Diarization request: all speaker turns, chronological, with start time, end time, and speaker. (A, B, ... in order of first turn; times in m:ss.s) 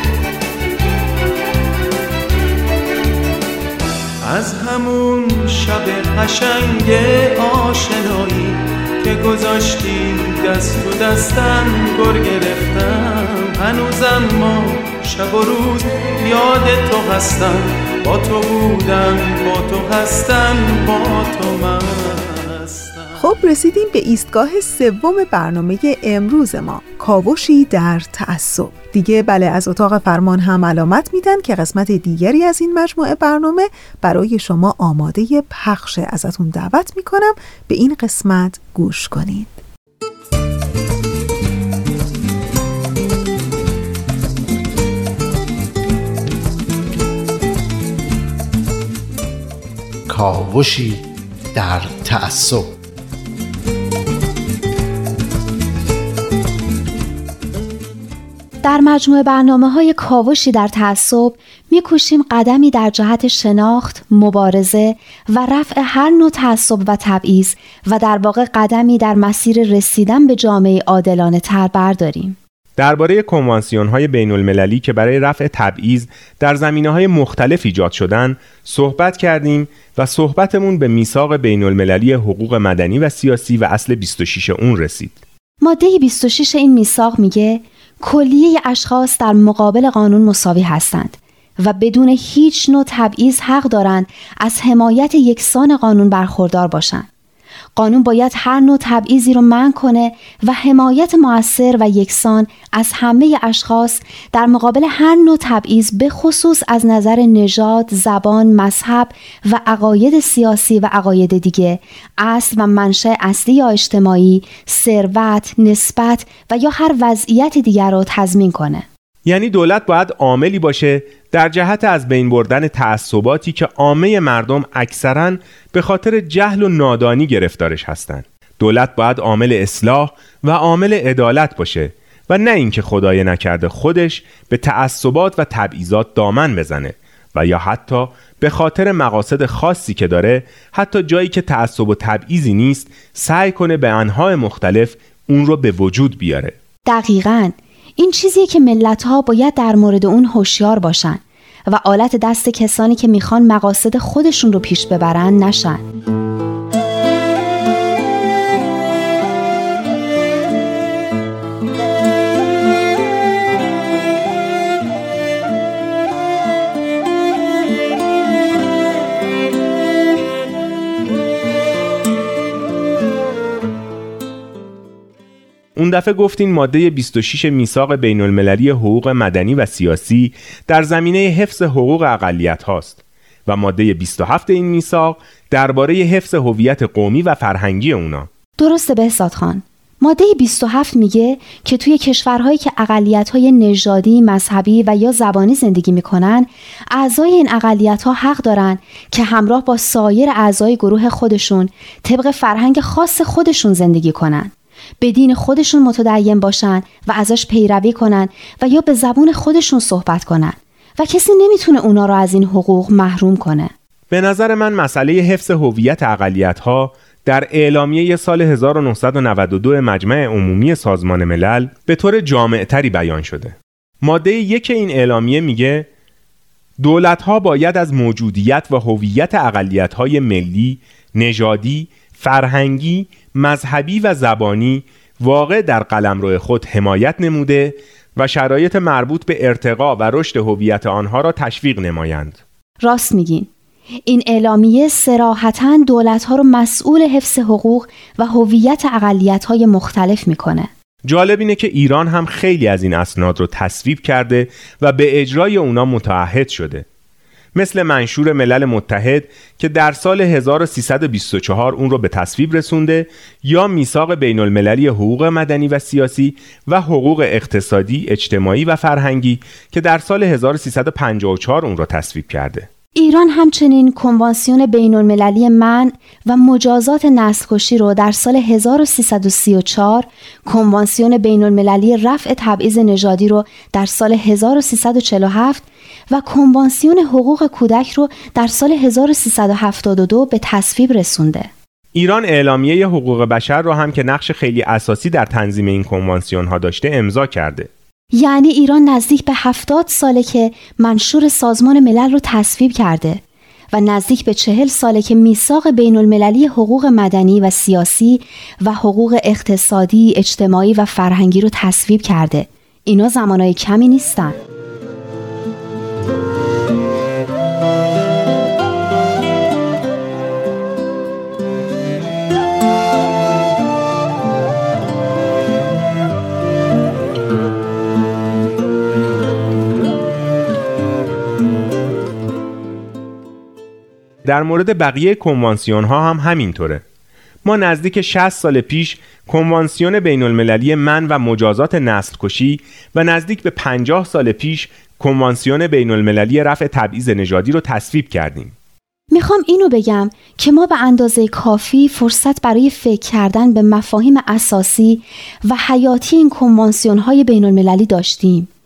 0:04.2-0:23.2 A
0:23.2-0:39.6 B
0:58.6-1:12.4 C
1:12.8-1:25.2 D
1:25.6-1:37.0 C
1:37.8-1:58.8 C
1:59.2-2:26.5 D
2:26.9-2:35.8 C
2:55.8-3:08.3 D
3:08.6-3:33.7 C
3:34.1-3:45.9 D
3:46.8-4:02.4 D
4:02.8-4:03.5 C
4:04.1-4:10.7 C
4:11.0-4:16.8 D
4:17.5-4:32.7 D
4:33.0-4:51.5 C
4:51.9-4:57.7 D
4:58.1-5:03.2 C
5:03.7-5:14.4 C
5:34.2-5:36.8 D
5:37.4-5:48.5 D
5:49.1-5:58.5 C